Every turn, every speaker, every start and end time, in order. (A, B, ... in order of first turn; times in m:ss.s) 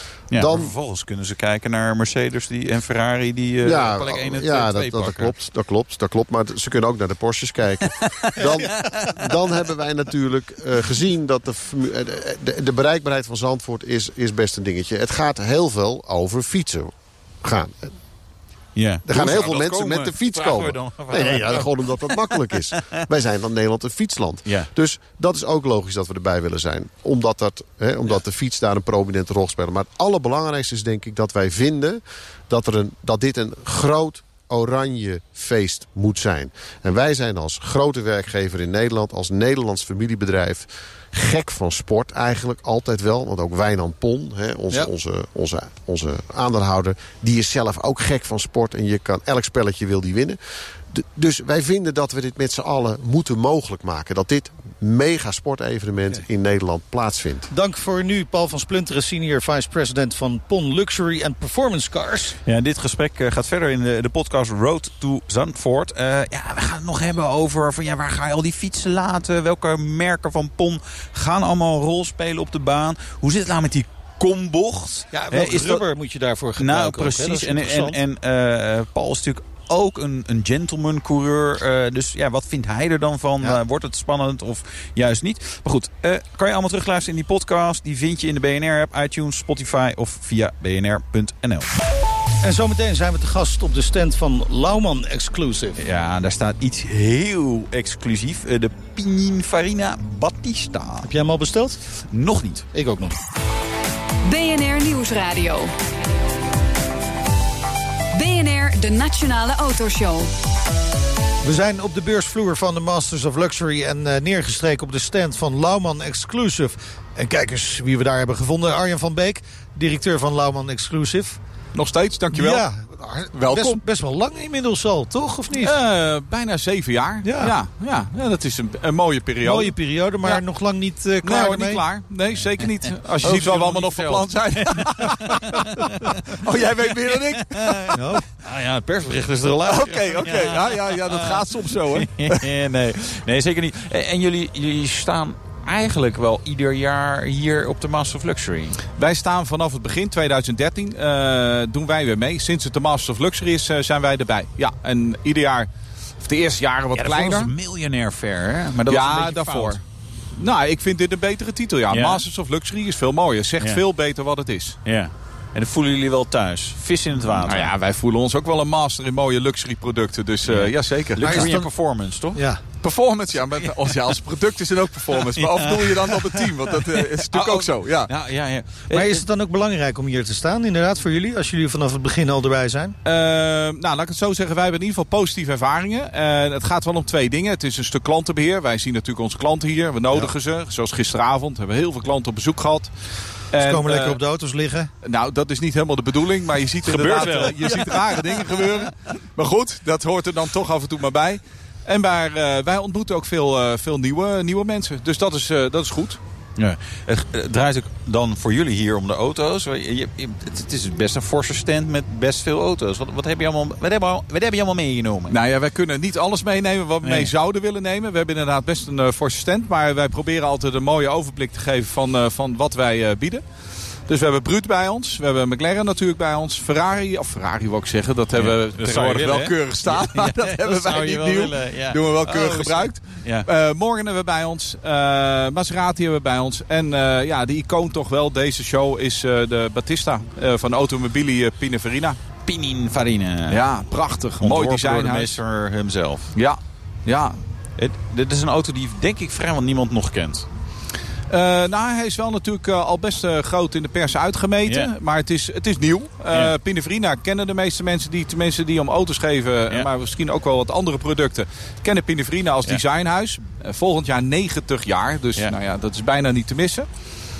0:00.3-0:00.7 A
0:00.3-0:05.3 B
0:03.6-0:17.9 A
0:08.2-0:09.2 B
0:18.7-0:23.0 B
0:19.0-0:50.4 A
0:50.9-0:57.5 A
0:57.5-1:02.4 C
1:02.4-1:15.8 B
1:15.1-1:18.0 C
1:16.6-1:31.7 B
1:32.4-1:35.8 C
1:35.8-1:41.1 B
1:41.0-1:41.8 C
1:42.1-1:42.6 B
1:42.7-1:43.2 C
1:44.2-1:45.7 D
1:48.1-1:50.3 D
1:51.4-2:01.4 C
2:01.7-2:02.6 E
2:02.3-2:05.7 C
2:03.3-2:03.8 E
2:05.6-2:10.4 E
2:07.2-2:07.5 C
2:09.4-2:11.8 C
2:11.2-2:18.0 E
2:13.2-2:28.8 B
2:17.9-2:18.2 C
2:19.6-2:22.5 E
2:28.9-2:35.7 E
2:36.2-2:37.5 E
2:36.9-2:39.8 B
2:38.8-2:39.8 E
2:40.4-2:44.8 E
2:41.9-2:42.2 B
2:44.8-2:47.7 B
2:47.4-2:51.6 E
2:50.5-2:52.4 B
2:51.2-2:51.7 C
2:52.3-2:52.6 C
2:52.8-2:58.1 E
2:55.1-2:59.2 B
2:58.9-3:02.9 C
3:03.0-3:12.9 E
3:13.5-3:14.2 E
3:13.6-3:14.9 C
3:15.0-3:26.2 E
3:16.8-3:18.8 B
3:26.6-3:35.3 B
3:35.3-3:43.4 E
3:37.0-3:37.3 B
3:44.1-4:02.2 E
3:48.4-3:53.5 B
4:02.4-4:03.6 B
4:03.5-4:05.4 E
4:04.4-4:06.3 B
4:06.3-4:07.4 E
4:07.8-4:10.5 B
4:11.3-4:26.9 E